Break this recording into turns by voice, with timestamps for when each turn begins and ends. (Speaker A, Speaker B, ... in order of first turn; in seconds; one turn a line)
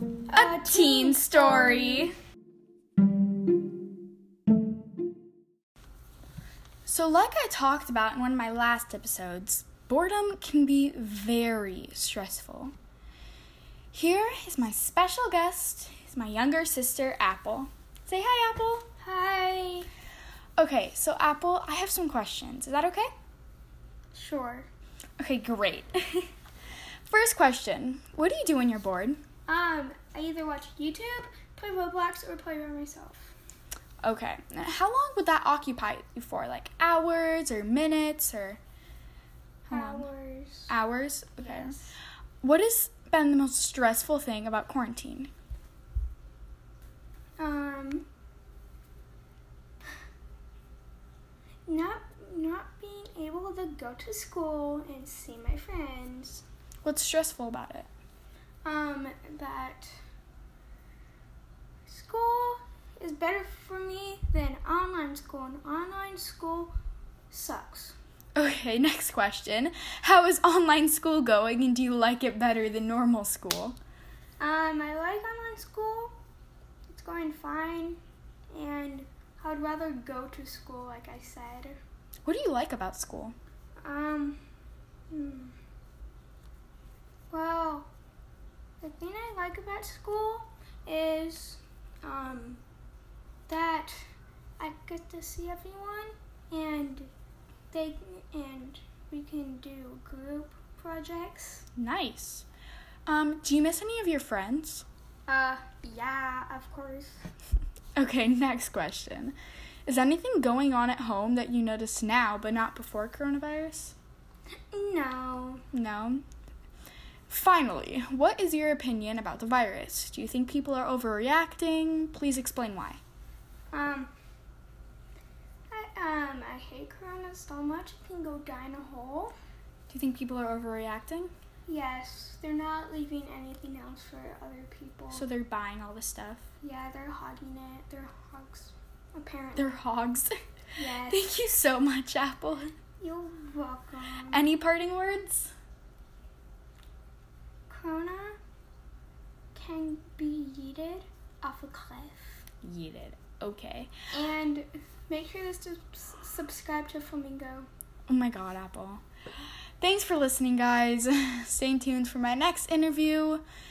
Speaker A: 0.3-2.1
Speaker B: 0.3-2.1
Speaker B: 6.8-12.7
Speaker B: 13.9-18.9
Speaker A: 19.0-19.9
Speaker B: 20.6-23.1
Speaker A: 24.1-24.7
Speaker B: 25.2-26.3
Speaker B: 27.1-29.2
Speaker A: 29.5-33.3
Speaker B: 34.0-38.6
Speaker B: 39.7-40.1
Speaker A: 39.7-40.7
Speaker B: 40.7-41.7
Speaker A: 41.4-41.9
Speaker B: 42.4-45.3
Speaker A: 47.4-48.1
Speaker A: 51.6-56.4
Speaker B: 56.8-57.9
Speaker A: 58.6-60.0
Speaker A: 61.9-66.7
Speaker A: 67.3-68.0
Speaker B: 68.3-73.8
Speaker A: 74.4-76.2
Speaker A: 76.9-78.0
Speaker A: 78.5-81.8
Speaker B: 82.2-83.3
Speaker A: 83.8-84.4
Speaker A: 85.1-85.5
Speaker A: 87.3-87.9
Speaker A: 88.8-92.6
Speaker A: 93.5-94.0
Speaker A: 94.6-97.1
Speaker A: 97.7-101.7
Speaker B: 101.8-102.5
Speaker B: 103.0-104.8
Speaker A: 105.3-107.2
Speaker B: 108.0-113.9
Speaker A: 114.7-115.6
Speaker B: 115.7-116.2
Speaker B: 117.3-123.0
Speaker A: 123.7-124.1
Speaker A: 125.7-129.3
Speaker B: 129.9-131.3
Speaker A: 131.7-135.2
Speaker B: 135.1-136.4
Speaker A: 136.6-139.8
Speaker B: 139.6-140.3
Speaker A: 140.8-141.2
Speaker B: 140.9-142.7
Speaker A: 143.0-144.5
Speaker B: 144.3-145.5
Speaker A: 147.7-148.4
Speaker A: 149.5-152.4
Speaker B: 152.6-153.9
Speaker A: 154.1-157.7
Speaker B: 158.1-159.0
Speaker B: 159.8-163.4